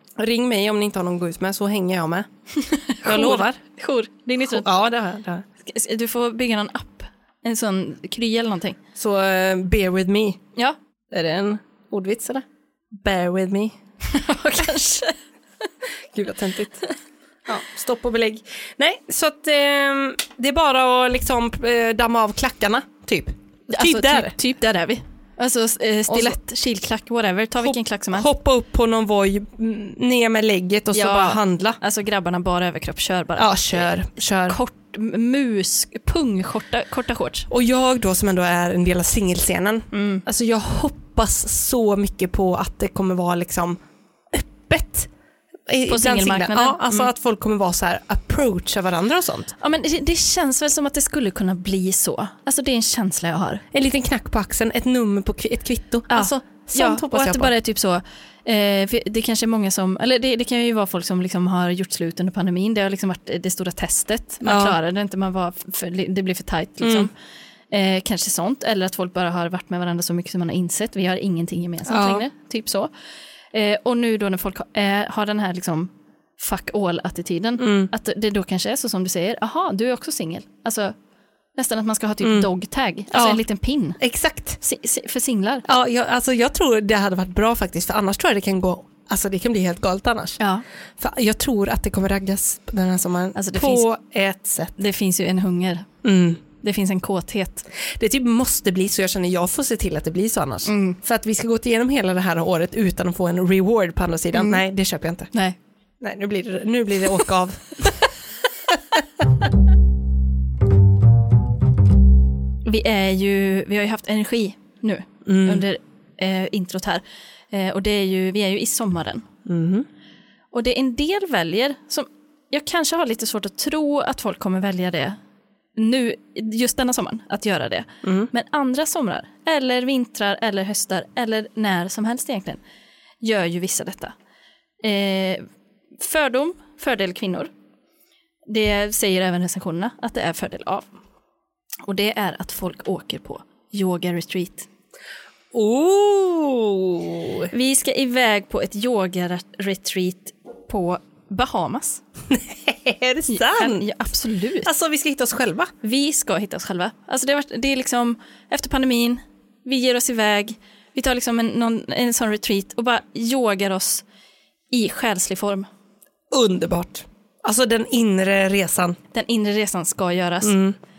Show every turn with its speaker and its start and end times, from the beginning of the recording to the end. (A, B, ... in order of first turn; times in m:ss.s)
0:00.2-0:02.3 A
0:02.6-0:04.6 B
0:03.0-0:03.6 A
0:04.4-0:05.4 A
0:05.6-0:08.8 B
0:09.0-0:10.4 A
0:11.1-0:13.8 A
0:14.0-0:15.2 B
0:16.1-0:16.8 A
0:17.4-0:24.3 A
0:23.7-0:28.3 B
0:26.1-0:26.4 A
0:27.6-0:31.8 A
0:30.9-0:33.9 B
0:33.4-0:34.6 A
0:34.4-0:37.5 B
0:37.5-0:43.8 A
0:39.9-0:40.2 B
0:44.3-0:45.1 A
0:45.7-0:49.5 A
0:45.9-0:47.1 B
0:49.6-0:53.6 B
0:53.7-0:57.5 A
0:56.1-1:07.1 B
1:04.4-1:04.8 A
1:06.8-1:07.1 A
1:07.7-1:12.9 B
1:11.9-1:12.2 A
1:13.5-1:20.9 B
1:17.6-1:17.9 A
1:21.6-1:24.0 B
1:22.2-1:22.5 A
1:23.1-1:23.4 A
1:24.0-1:24.6 A
1:24.6-1:25.6 B
1:25.7-1:30.4 A
1:31.0-1:34.8 A
1:33.3-1:33.8 B
1:34.8-1:35.9 B
1:36.0-1:36.4 A
1:36.6-1:37.7 B
1:37.8-1:45.3 A
1:40.6-1:41.0 B
1:44.3-1:44.6 B
1:46.0-1:48.0 A
1:48.7-1:49.0 A
1:52.6-1:59.3 B
1:55.2-1:55.6 A
1:59.4-1:59.9 A
2:00.5-2:05.2 B
2:05.8-2:12.6 B
2:08.0-2:08.3 A
2:13.2-2:14.1 B
2:14.8-2:15.4 B
2:16.0-2:17.5 B
2:18.5-2:20.9 B
2:21.8-2:24.7 B
2:25.5-2:27.5 A
2:27.5-2:32.0 B
2:32.3-2:33.9 A
2:33.3-2:34.7 B
2:34.6-2:35.7 A
2:35.8-2:44.0 B
2:44.7-2:45.7 B
2:46.3-2:49.0 A
2:49.1-2:50.6 B
2:50.4-2:50.8 A